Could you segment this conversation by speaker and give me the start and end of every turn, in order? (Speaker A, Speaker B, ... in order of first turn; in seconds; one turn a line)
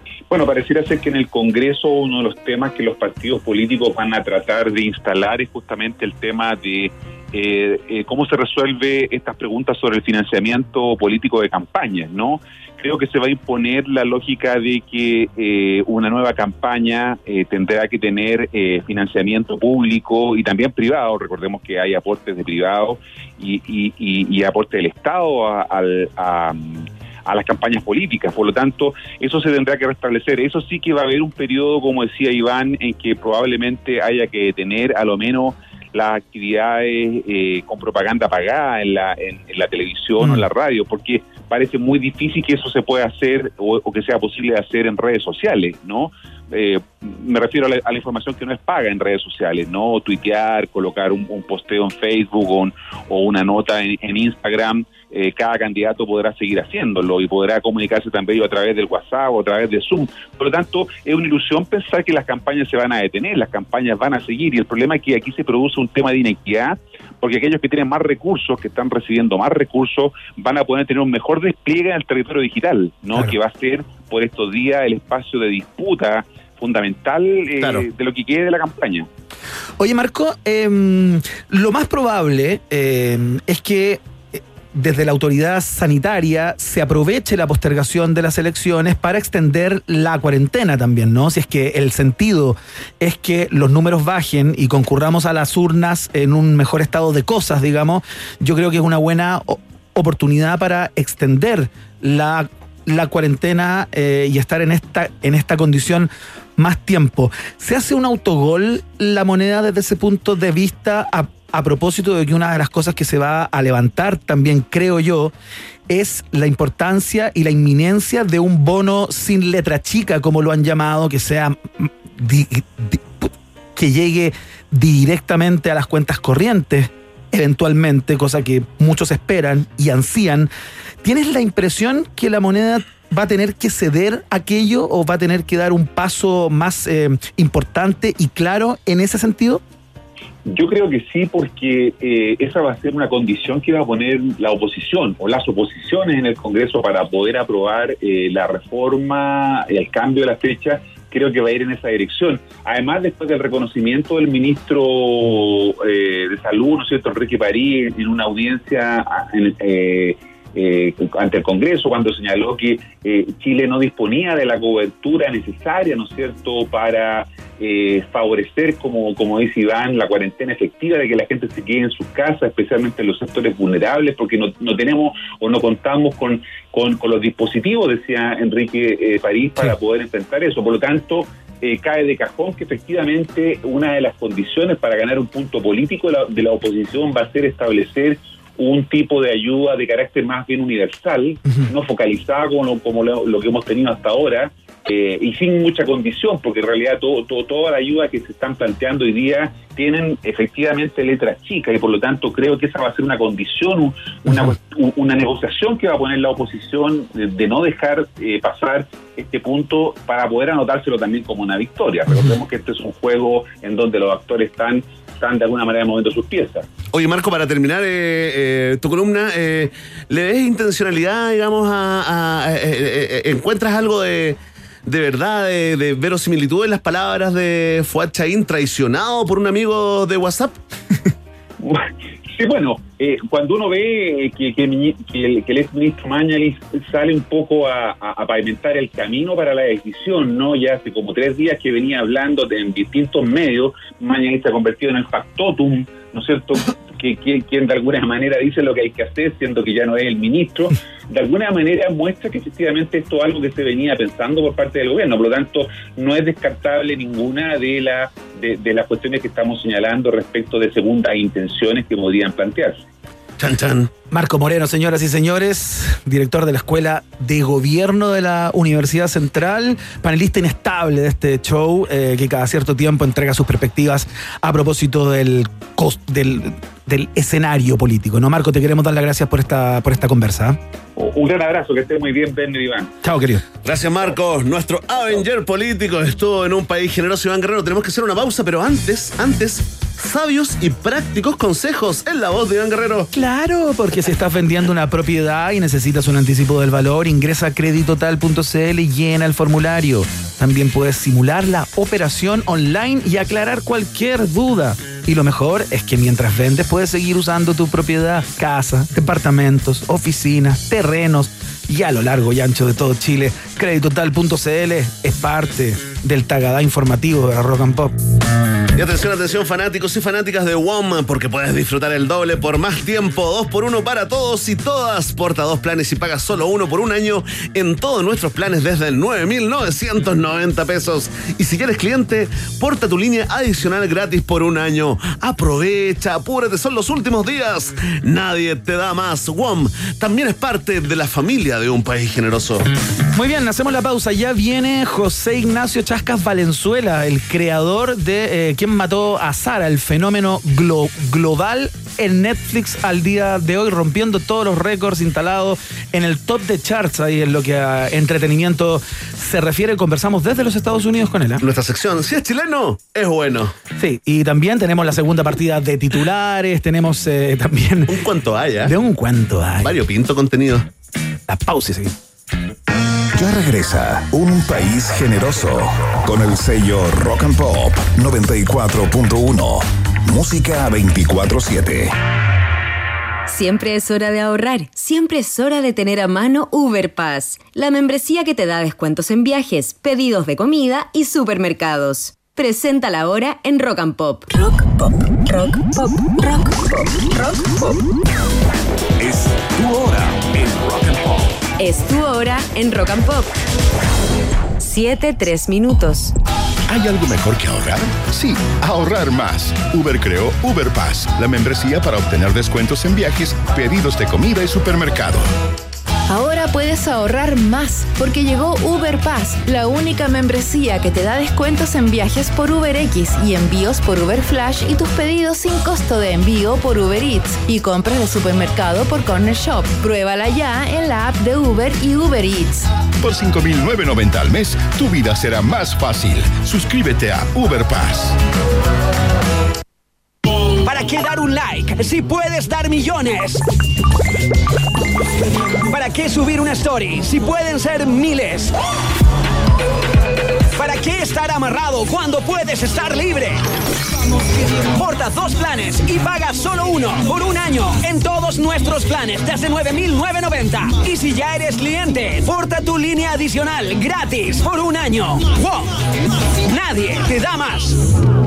Speaker A: 0.3-79.1
Speaker B: 77.6-77.8
Speaker C: 79.8-115.3
Speaker C: 115.9-130.5
Speaker C: 131.0-139.6
Speaker A: 140.4-216.7
Speaker B: 216.9-230.6
Speaker A: 231.6-262.8
Speaker B: 263.4-263.9
Speaker C: 264.1-280.6
Speaker A: 280.9-282.9
Speaker C: 283.0-283.4
Speaker B: 283.6-293.1
Speaker C: 293.1-317.9
Speaker B: 318.7-342.6
Speaker C: 343.1-361.4
Speaker B: 361.4-363.5
Speaker C: 363.8-367.9
Speaker B: 367.9-368.7
Speaker C: 368.6-369.7
Speaker B: 369.6-370.6
Speaker C: 371.3-371.9
Speaker D: 373.1-381.9
Speaker E: 383.3-394.7
Speaker E: 395.3-397.8
Speaker D: 399.0-401.2
Speaker E: 401.6-403.3
Speaker E: 404.6-406.1
Speaker F: 406.7-415.3
Speaker G: 416.1-432.7
Speaker F: 433.0-438.1
Speaker H: 440.6-443.4
Speaker H: 445.6-448.5
Speaker H: 450.6-453.4
Speaker H: 454.6-465.8
Speaker H: 466.4-467.8